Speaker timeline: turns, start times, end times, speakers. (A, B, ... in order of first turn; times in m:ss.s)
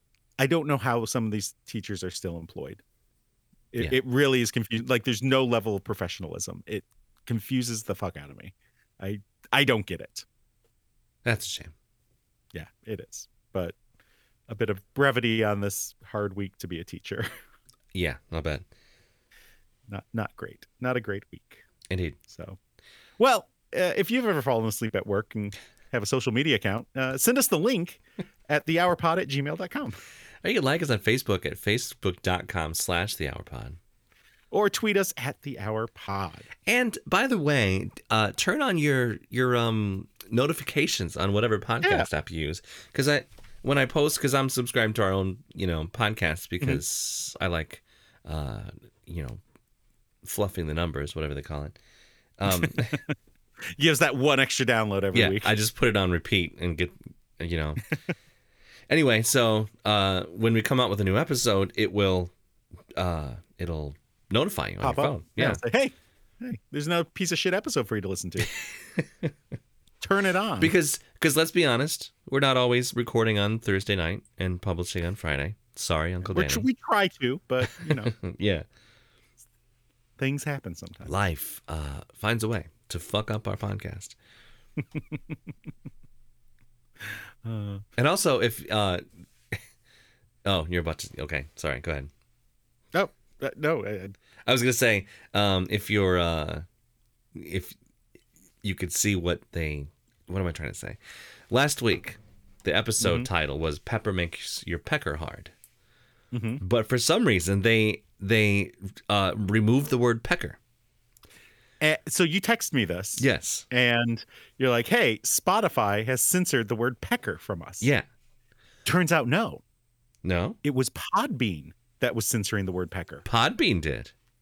0:00.4-0:02.8 A
0:03.7-0:10.3 A
0:11.2-0:11.7 B
0:12.5-0:13.8 A
0:14.5-0:17.3 A
0:17.9-0:18.6 B
0:19.9-0:21.6 A
0:21.9-0:22.2 B
0:22.3-0:22.6 A
0:23.2-0:30.0 A
0:30.4-0:33.8 B
0:34.5-0:36.5 A
0:36.6-0:49.4 B
0:41.8-0:42.1 A
0:50.2-0:51.8 B
0:52.4-0:53.0 B
0:52.5-0:53.1 A
0:53.8-0:55.5 A
0:55.1-0:57.8 B
0:58.9-1:02.3 B
1:03.0-1:05.6 B
1:04.8-1:08.5 A
1:09.0-1:09.3 B
1:10.0-1:10.7 A
1:10.6-1:16.6 B
1:16.2-1:18.1 A
1:17.6-1:18.6 B
1:20.2-1:21.1 A
1:21.1-1:24.2 B
1:24.9-1:25.2 A
1:27.4-1:27.8 A
1:28.0-1:29.6 B
1:30.4-1:32.1 B
1:32.9-1:34.1 A
1:34.4-1:36.6 B
1:37.3-1:37.8 B
1:38.6-1:41.0 B
1:41.5-1:45.5 B
1:43.0-1:43.3 A
1:46.3-1:46.6 A
1:46.6-1:50.6 B
1:51.8-1:57.9 A
1:53.2-1:53.6 B
1:58.9-1:59.6 A
2:00.2-2:00.6 B
2:00.6-2:03.2 A
2:03.2-2:04.1 B